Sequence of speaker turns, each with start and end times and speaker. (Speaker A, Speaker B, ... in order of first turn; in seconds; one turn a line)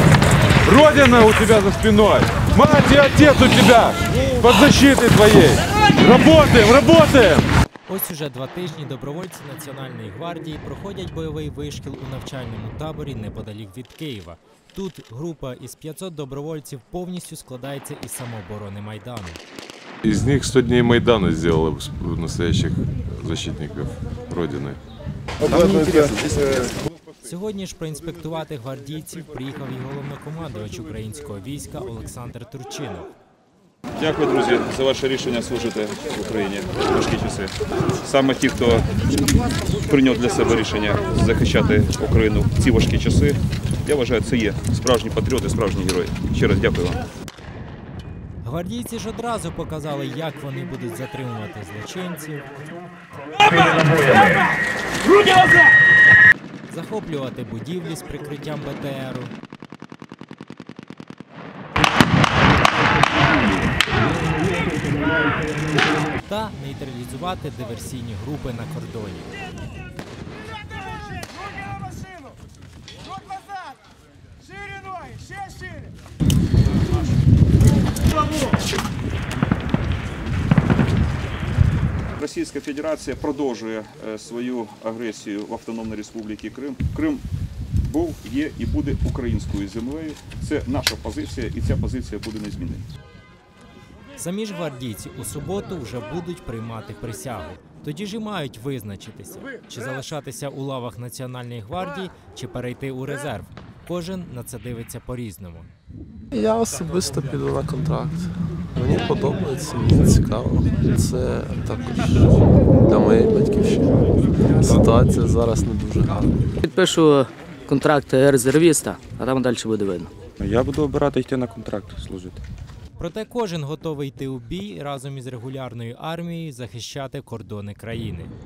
Speaker A: 0.7-7.5
Speaker B: 7.9-19.4
Speaker A: 20.0-24.8
Speaker C: 25.5-26.1
Speaker D: 25.9-26.1
Speaker B: 27.2-33.1
Speaker C: 34.0-39.1
Speaker C: 39.8-47.0
Speaker B: 48.4-52.5
Speaker B: 56.7-59.3
Speaker B: 66.2-69.3
Speaker C: 82.2-87.2
Speaker C: 87.8-92.9
Speaker B: 94.2-105.7
Speaker D: 106.3-114.0
Speaker D: 114.5-116.4
Speaker E: 116.6-120.1
Speaker F: 120.4-122.4
Speaker B: 123.0-128.3